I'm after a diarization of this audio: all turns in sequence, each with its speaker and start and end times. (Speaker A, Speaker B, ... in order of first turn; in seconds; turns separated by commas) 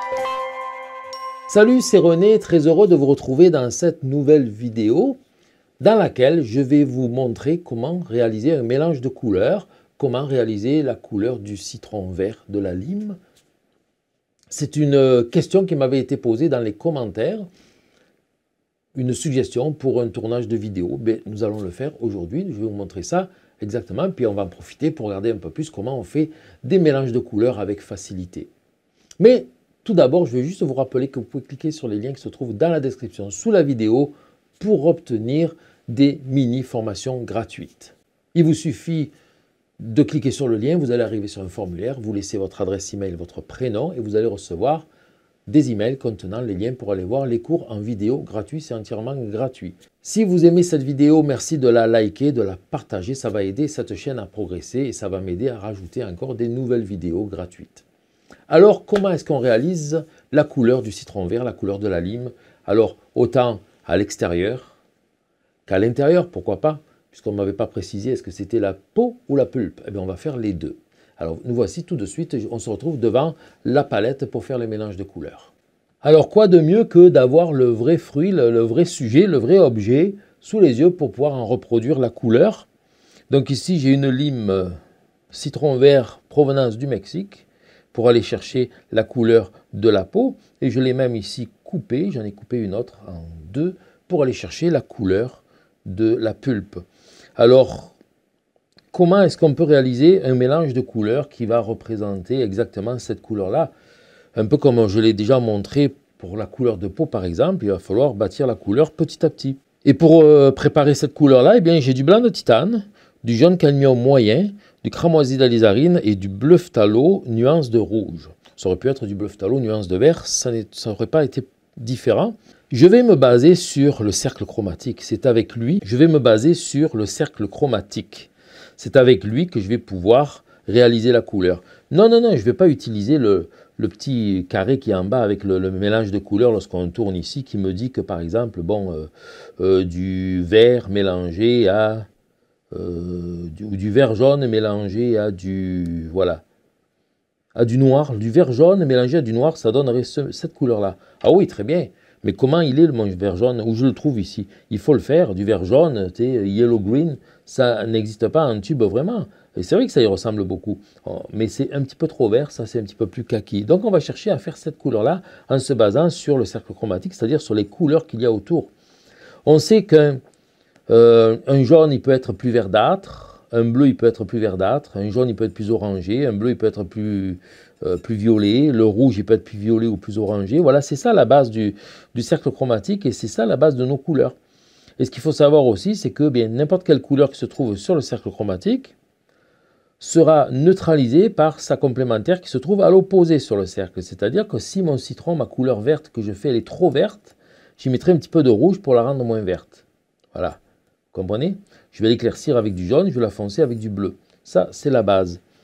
Speaker A: 1.5-5.2, Speaker A: 5.8-13.2, Speaker A: 14.5-17.5, Speaker A: 18.9-28.5, Speaker A: 29.2-39.1, Speaker A: 39.8-44.9, Speaker A: 45.5-57.8, Speaker A: 58.5-64.8, Speaker A: 65.7-75.5, Speaker A: 76.0-82.7, Speaker A: 83.3-84.8, Speaker A: 85.3-96.8, Speaker A: 97.4-98.0, Speaker A: 98.9-103.7, Speaker A: 104.3-142.1, Speaker A: 142.7-146.4, Speaker A: 147.6-168.7, Speaker A: 169.4-170.2, Speaker A: 170.9-184.4, Speaker A: 185.0-188.9, Speaker A: 190.0-200.6, Speaker A: 201.1-205.4